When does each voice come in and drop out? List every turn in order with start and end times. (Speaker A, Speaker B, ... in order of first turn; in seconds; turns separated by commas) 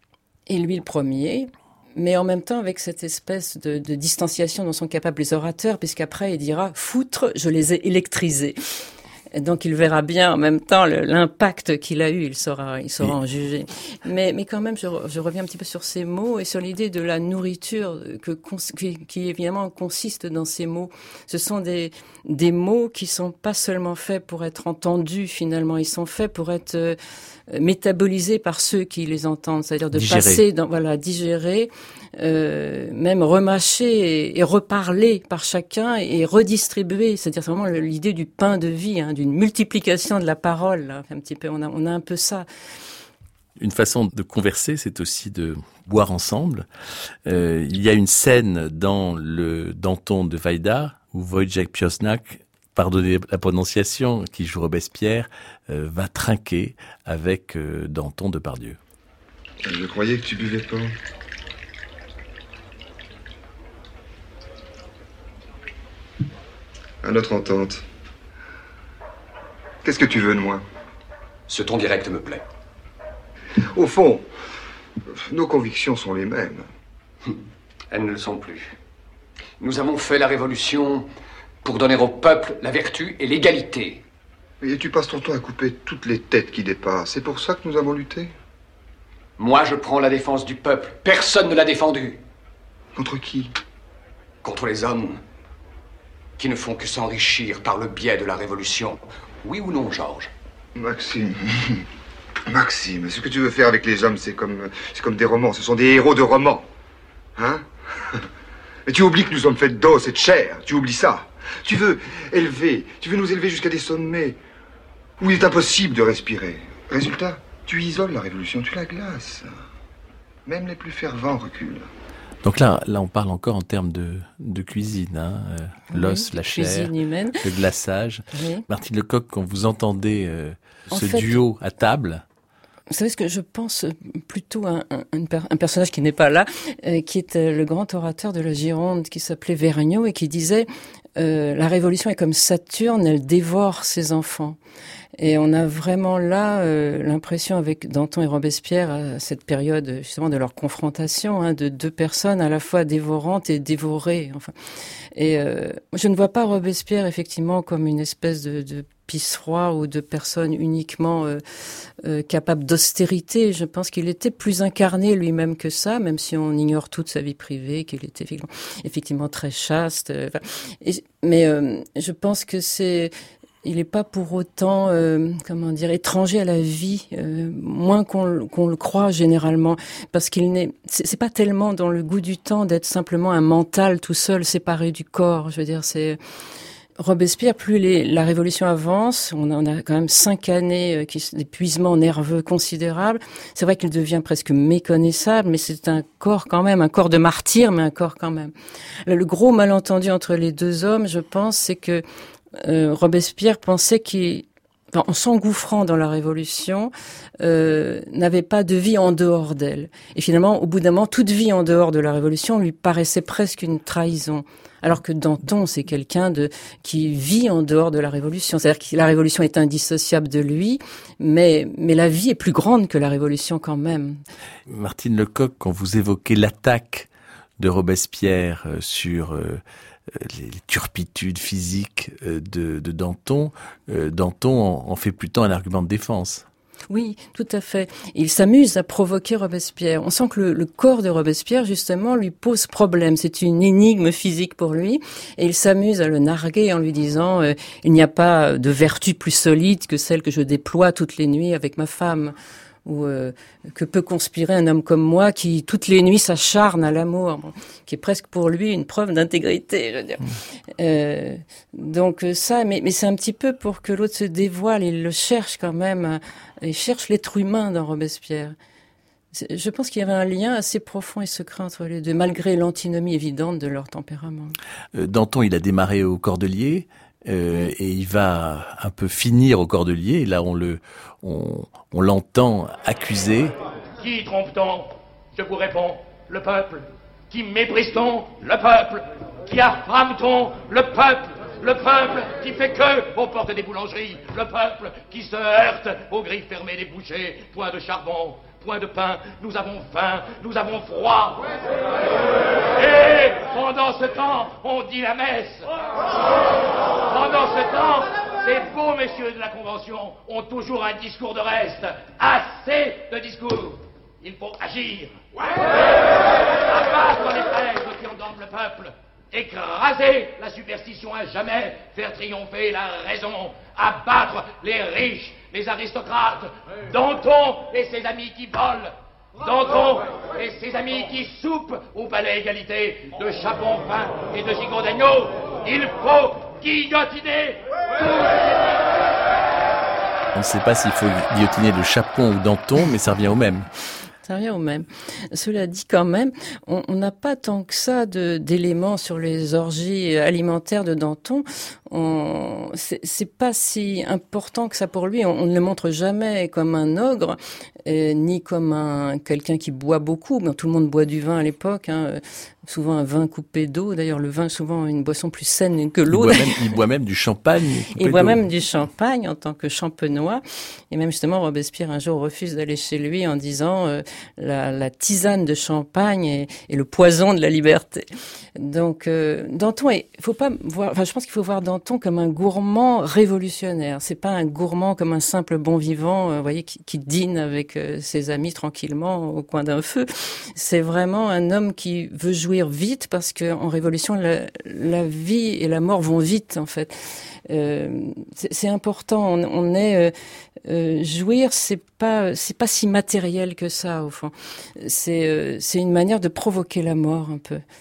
Speaker A: 0.5-8.6, Speaker A: 9.3-27.0, Speaker A: 27.5-42.5, Speaker B: 29.9-30.4, Speaker B: 43.6-46.7, Speaker B: 47.3-58.8, Speaker C: 59.6-60.9, Speaker C: 67.0-67.8, Speaker C: 69.8-70.6, Speaker D: 71.5-72.4, Speaker C: 73.7-74.3, Speaker C: 75.1-76.7, Speaker D: 77.9-78.7, Speaker D: 79.6-81.1, Speaker D: 81.6-84.0, Speaker C: 84.6-88.3, Speaker D: 89.4-92.2, Speaker C: 93.0-93.5, Speaker D: 94.4-95.2, Speaker D: 96.4-100.3, Speaker C: 100.8-101.8, Speaker C: 102.5-106.7, Speaker C: 107.4-108.3, Speaker C: 108.9-114.4, Speaker C: 115.2-119.5, Speaker C: 120.5-121.9, Speaker B: 122.4-132.2, Speaker A: 125.9-127.4, Speaker A: 128.3-128.6, Speaker A: 130.9-131.4, Speaker A: 132.9-144.6, Speaker A: 145.2-154.5, Speaker A: 155.2-161.4, Speaker A: 162.0-173.1, Speaker A: 173.6-186.2, Speaker A: 187.0-198.5, Speaker A: 199.1-202.0, Speaker A: 202.6-224.2, Speaker B: 224.7-227.1, Speaker B: 227.6-229.6, Speaker B: 230.1-236.4, Speaker A: 236.9-252.3, Speaker A: 252.9-260.2, Speaker A: 260.8-268.6, Speaker A: 269.3-274.6, Speaker B: 274.9-283.6, Speaker E: 284.0-301.5, Speaker E: 302.7-305.7, Speaker E: 307.1-315.7, Speaker E: 316.3-337.6, Speaker B: 340.4-343.7, Speaker A: 344.3-366.6, Speaker B: 366.1-368.4, Speaker A: 368.0-378.1, Speaker A: 378.6-397.0, Speaker A: 397.5-400.1, Speaker A: 400.7-407.6